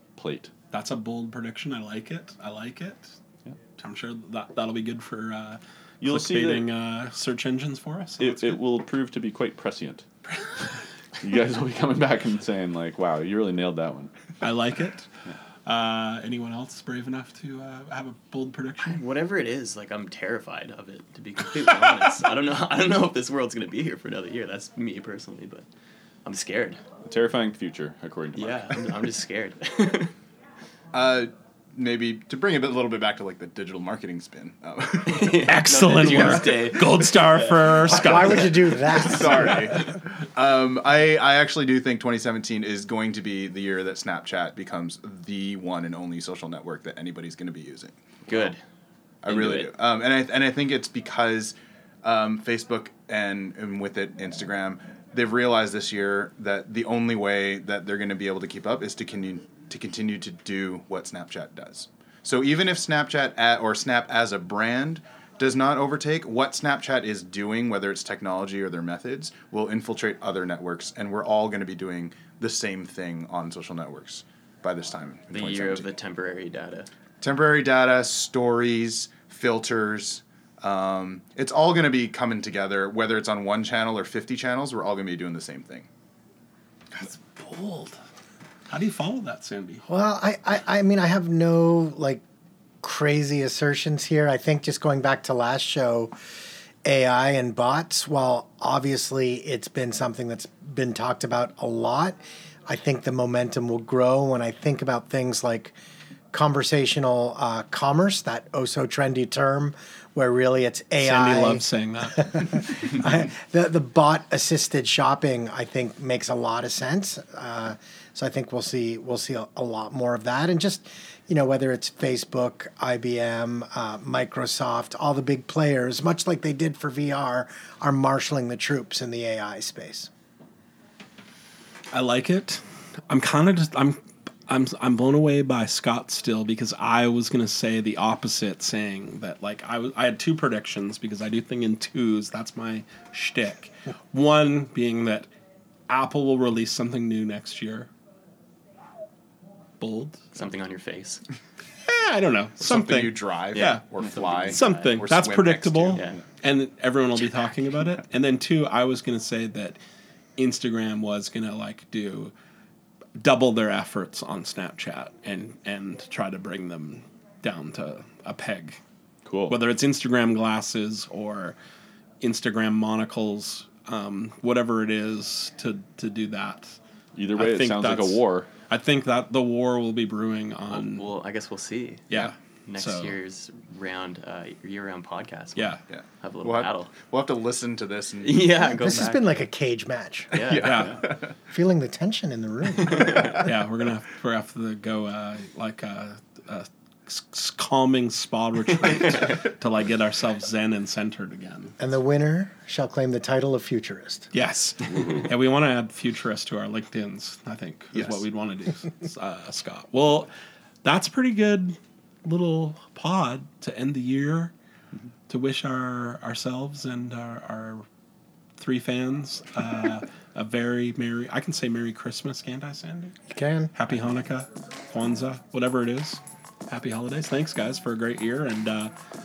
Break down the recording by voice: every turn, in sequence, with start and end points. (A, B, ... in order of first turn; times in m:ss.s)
0:00.2-0:00.5 A
0:00.7-0:03.2 B
0:03.8-0:08.6 B
0:06.0-0:06.7 A
0:08.2-0:10.1 A
0:11.2-0:14.1 A
0:14.4-0:15.1 B
0:15.6-0:19.0 B
0:18.8-0:25.7 C
0:26.2-0:26.8 C
0:27.0-0:29.0 A
0:28.4-0:30.1 C
0:30.9-0:35.5 D
0:35.1-0:38.3 C
0:35.4-0:38.8 B
0:37.8-0:39.6 E
0:38.9-0:39.2 C
0:38.9-0:48.5 D
0:48.3-0:48.6 C
0:49.2-1:15.9 D
0:49.3-0:49.7 C
1:15.3-1:16.9 C
1:17.2-1:25.9 D
1:26.9-1:28.0 B
1:28.7-1:29.8 B
1:29.9-1:32.2 E
1:32.8-1:36.1 E
1:36.8-1:45.8 E
1:46.3-2:10.1 E
1:51.0-1:52.6 B
2:11.9-2:25.3 B
2:25.9-2:27.9 B
2:29.8-2:30.3 B
2:30.3-2:31.2 C
2:31.8-2:33.8 B
2:32.6-2:36.2 D
2:33.5-2:35.0 C
2:34.4-2:39.8 B
2:35.9-2:36.2 C
2:40.4-2:42.3 B
2:43.2-2:48.8 B
2:49.2-2:49.6 A
2:49.5-2:51.6 B
2:52.2-2:56.8 B
2:57.2-2:58.5 A
2:57.4-3:01.1 B
3:00.7-3:06.9 C
3:02.1-3:03.2 B
3:05.6-3:05.8 B
3:05.9-3:08.7 D
3:08.2-3:09.3 C
3:08.7-3:10.4 E
3:10.3-3:11.0 C
3:10.4-3:11.3 D
3:10.5-3:11.0 B
3:11.4-3:13.4 E
3:12.8-3:13.3 C
3:12.9-3:13.5 D
3:13.4-3:21.8 B
3:21.8-3:24.3 E
3:24.3-3:30.3 B
3:24.9-3:25.3 A
3:27.9-3:28.2 D
3:30.8-3:34.5 B
3:35.3-3:37.9 B
3:38.6-3:43.2 B
3:43.3-3:43.7 E
3:43.7-3:48.9 B